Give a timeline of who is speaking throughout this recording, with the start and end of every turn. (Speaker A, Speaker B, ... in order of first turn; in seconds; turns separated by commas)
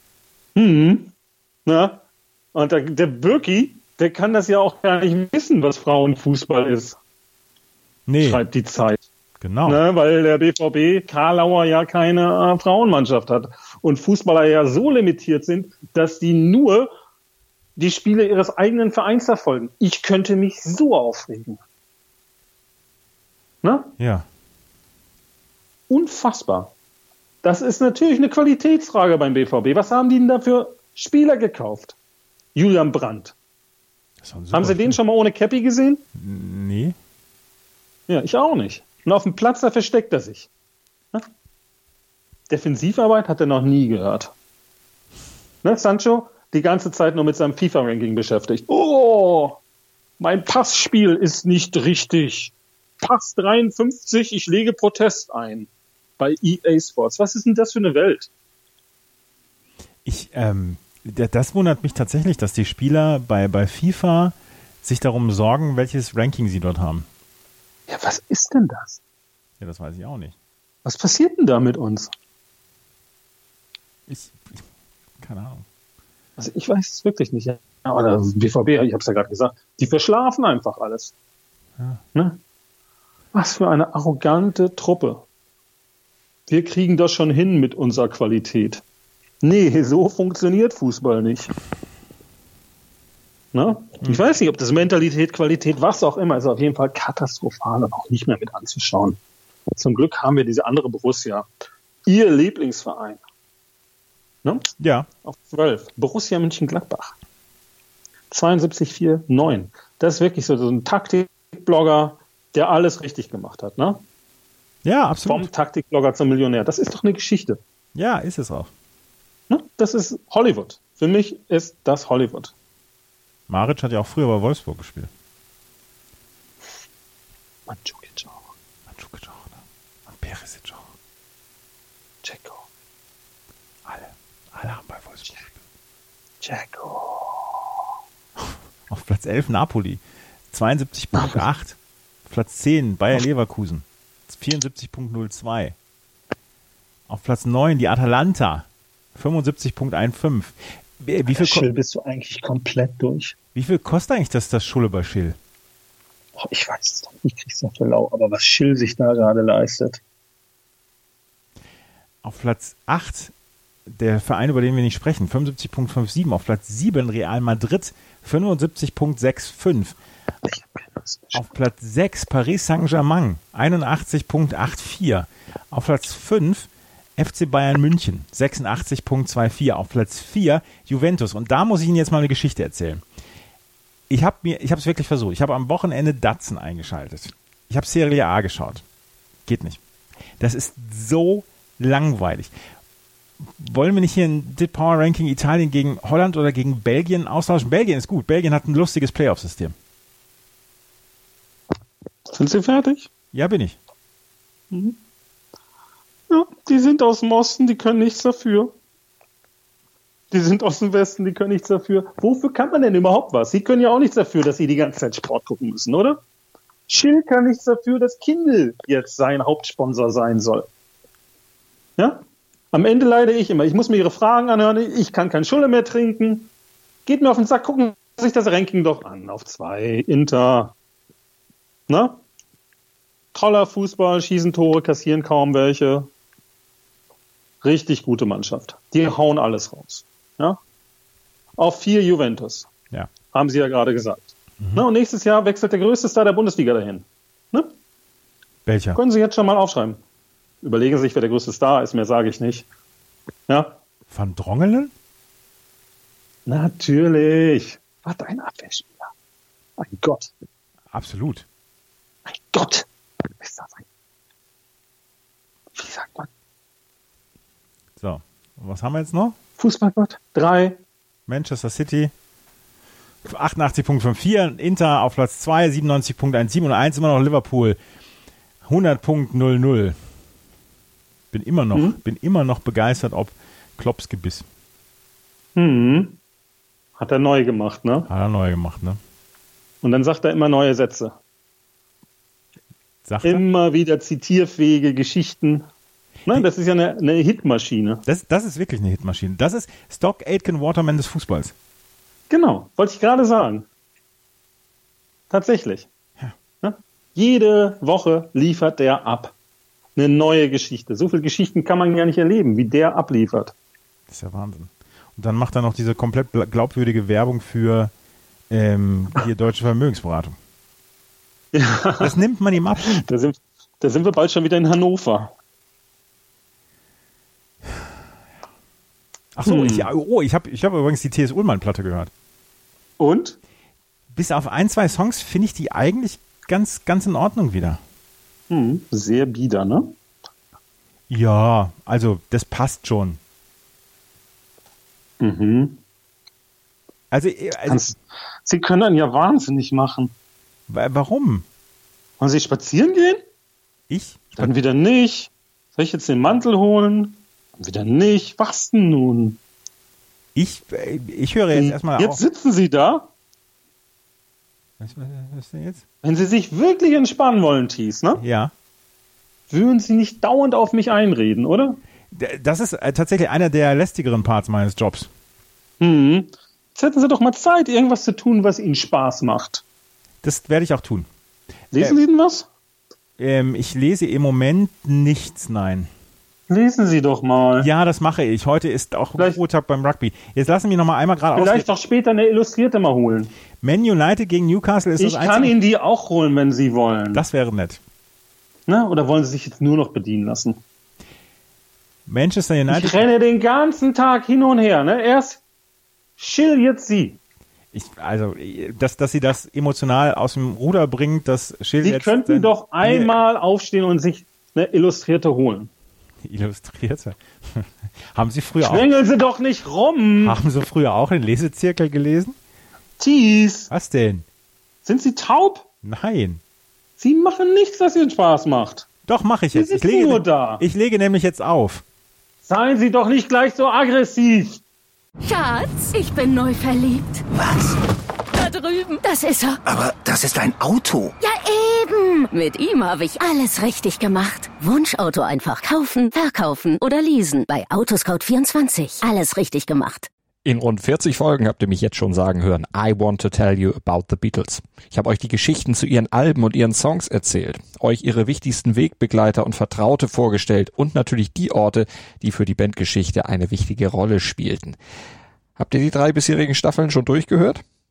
Speaker A: 0.6-1.1, Speaker A: 1.6-2.0, Speaker A: 2.5-7.0, Speaker B: 8.1-8.4, Speaker A: 8.2-9.0, Speaker B: 9.4-9.8, Speaker A: 9.7-16.9, Speaker A: 17.8-21.6, Speaker A: 23.6-23.9, Speaker B: 24.0-24.2, Speaker A: 25.9-26.7, Speaker A: 27.4-31.9, Speaker A: 32.5-33.3, Speaker B: 34.2-35.0, Speaker A: 34.5-36.0, Speaker B: 36.1-36.9, Speaker A: 38.1-40.5, Speaker A: 42.5-44.3, Speaker A: 45.6-49.6, Speaker A: 50.2-58.3, Speaker B: 60.0-67.0, Speaker A: 67.9-69.0, Speaker B: 69.6-70.3, Speaker A: 70.8-72.1, Speaker B: 74.1-74.6, Speaker B: 75.2-75.6, Speaker A: 76.4-81.1, Speaker A: 83.3-85.2, Speaker A: 86.5-88.8, Speaker A: 89.4-91.5, Speaker A: 93.5-99.2, Speaker A: 99.8-101.5, Speaker A: 102.1-103.2, Speaker A: 104.4-104.7, Speaker B: 104.8-105.1, Speaker A: 105.2-107.1, Speaker A: 108.3-114.0, Speaker B: 114.8-115.5, Speaker A: 115.2-117.6, Speaker B: 117.9-118.7, Speaker A: 119.5-122.5, Speaker B: 123.5-125.1, Speaker A: 127.7-128.4, Speaker B: 128.9-130.8, Speaker A: 132.2-132.6, Speaker B: 133.8-135.6, Speaker A: 136.4-137.4, Speaker B: 138.4-140.0, Speaker B: 140.5-141.8, Speaker A: 141.1-141.4, Speaker B: 142.3-145.7, Speaker B: 147.1-151.7, Speaker A: 151.3-153.3, Speaker B: 153.5-155.4, Speaker A: 156.4-160.0, Speaker B: 162.2-163.3, Speaker B: 163.9-169.9, Speaker A: 170.4-171.5, Speaker B: 171.3-183.0, Speaker B: 184.1-188.8, Speaker B: 189.5-189.8, Speaker B: 190.4-192.5, Speaker B: 193.4-199.7, Speaker A: 202.3-203.1, Speaker B: 203.3-203.8, Speaker A: 204.7-205.0, Speaker A: 206.3-208.7, Speaker A: 210.3-216.2, Speaker A: 216.9-220.7, Speaker A: 222.0-226.5, Speaker A: 227.1-230.7, Speaker A: 231.9-232.2, Speaker A: 233.3-236.1, Speaker A: 237.6-240.6, Speaker A: 241.6-242.7, Speaker A: 243.3-247.7, Speaker B: 244.6-244.8, Speaker B: 248.7-249.0, Speaker A: 248.9-250.0, Speaker A: 250.6-252.7, Speaker A: 253.5-253.8, Speaker B: 254.1-254.9, Speaker A: 256.5-259.1, Speaker A: 259.8-260.3, Speaker B: 260.9-261.4, Speaker A: 262.3-262.9, Speaker A: 263.4-263.9, Speaker A: 265.7-266.3, Speaker B: 268.0-269.4, Speaker A: 269.6-270.8, Speaker B: 271.3-272.1, Speaker B: 273.2-277.8, Speaker B: 278.6-279.9, Speaker B: 281.3-284.4, Speaker A: 285.6-286.2, Speaker A: 287.0-288.1, Speaker B: 288.1-289.0, Speaker A: 289.8-291.1, Speaker B: 293.0-293.4, Speaker A: 293.2-295.7, Speaker A: 296.3-298.0, Speaker B: 298.1-301.5, Speaker A: 302.3-303.6, Speaker A: 305.3-305.9, Speaker A: 306.6-309.3, Speaker A: 309.9-313.5, Speaker B: 314.1-317.9, Speaker B: 318.5-320.4, Speaker A: 321.5-322.1, Speaker B: 322.0-323.0, Speaker A: 322.8-325.3, Speaker B: 329.3-332.1, Speaker A: 329.4-329.9, Speaker A: 333.0-333.4, Speaker B: 334.1-337.8, Speaker A: 338.5-339.9, Speaker B: 341.1-343.2, Speaker A: 345.2-345.8, Speaker B: 347.1-347.9, Speaker A: 347.7-350.1, Speaker B: 350.7-351.4, Speaker A: 352.2-353.2, Speaker B: 353.9-354.5, Speaker A: 354.4-359.4, Speaker B: 360.4-362.2, Speaker A: 361.5-363.1, Speaker B: 364.8-365.8, Speaker A: 366.0-368.2, Speaker B: 368.2-368.5, Speaker A: 369.5-371.8, Speaker B: 372.1-375.1, Speaker A: 375.8-379.6, Speaker B: 380.2-381.1, Speaker A: 381.7-382.5, Speaker B: 383.2-385.9, Speaker A: 386.5-387.7, Speaker B: 387.6-391.6, Speaker A: 391.3-393.3, Speaker B: 393.6-395.5, Speaker A: 395.0-397.2, Speaker B: 397.1-397.8, Speaker A: 398.7-400.6, Speaker B: 402.1-403.1, Speaker A: 402.7-405.4, Speaker A: 406.2-407.2, Speaker B: 407.7-413.1, Speaker A: 411.8-415.7, Speaker B: 416.2-418.9, Speaker A: 418.6-420.4, Speaker B: 420.2-422.3, Speaker A: 423.0-423.7, Speaker B: 423.7-424.2, Speaker A: 424.8-425.6, Speaker B: 425.8-426.4, Speaker A: 427.0-428.9, Speaker B: 429.1-431.8, Speaker A: 429.5-430.6, Speaker A: 432.4-434.6, Speaker C: 435.2-437.2, Speaker D: 437.3-437.8, Speaker C: 438.3-439.6, Speaker D: 439.6-441.1, Speaker C: 441.2-450.1, Speaker E: 450.4-464.8, Speaker E: 465.6-467.6